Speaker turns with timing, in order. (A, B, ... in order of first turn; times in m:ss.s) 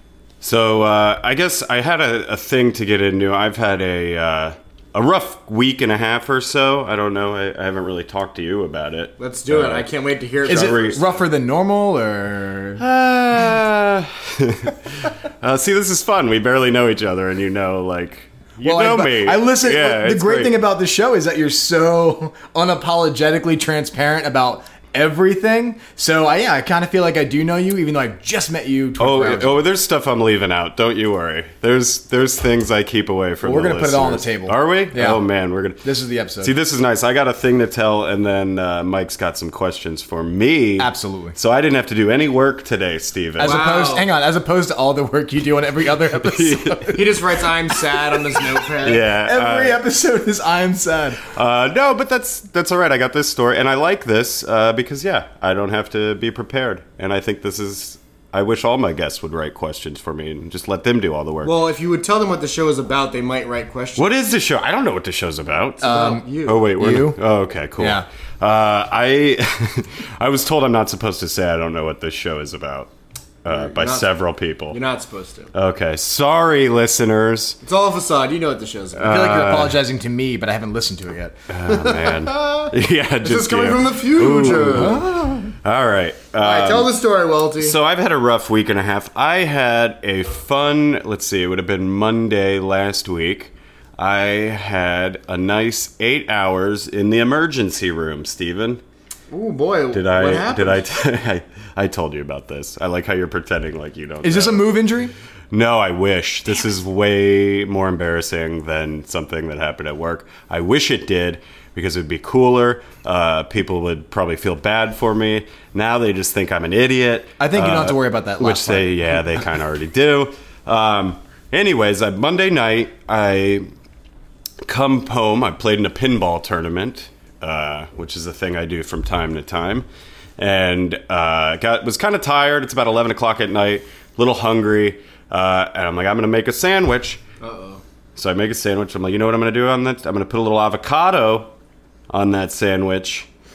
0:00.4-0:09.9 A
0:09.2-0:11.0 B
0:10.4-0:11.0 A
0:10.5-0:12.8 C
0:12.8-0:20.5 A
0:18.6-0:29.6 C
0:29.0-0:35.8 A
0:33.4-0:35.2 C
0:35.8-0:36.5 C
0:36.4-0:43.6 A
0:40.8-0:41.4 C
0:43.4-0:47.2 C
0:43.4-0:44.1 B
0:46.2-0:47.0 A
0:46.9-0:49.1 B
0:48.8-0:49.8 A
0:49.2-0:51.2 C
0:51.3-1:01.5 A
1:01.4-1:04.2 B
1:04.0-1:05.9 A
1:05.8-1:06.7 B
1:05.8-1:07.2 C
1:06.4-1:12.9 A
1:07.8-1:08.0 C
1:13.4-1:14.8 A
1:13.5-1:14.1 B
1:14.7-1:15.5 B
1:15.5-1:17.6 A
1:17.6-1:19.5 B
1:18.9-1:19.8 A
1:19.0-1:21.3 C
1:21.5-1:25.1 A
1:21.7-1:22.7 B
1:23.2-1:25.0 B
1:24.6-1:25.5 C
1:25.6-1:26.9 A
1:26.4-1:27.8 B
1:27.6-1:38.8 A
1:39.3-1:40.8 B
1:39.9-1:44.8 A
1:44.2-1:45.1 C
1:45.5-2:03.6 A
1:57.4-1:59.4 C
2:04.6-2:09.9 A
2:10.4-2:17.2 A
2:17.4-2:17.8 B
2:18.2-2:21.5 A
2:22.1-2:23.3 A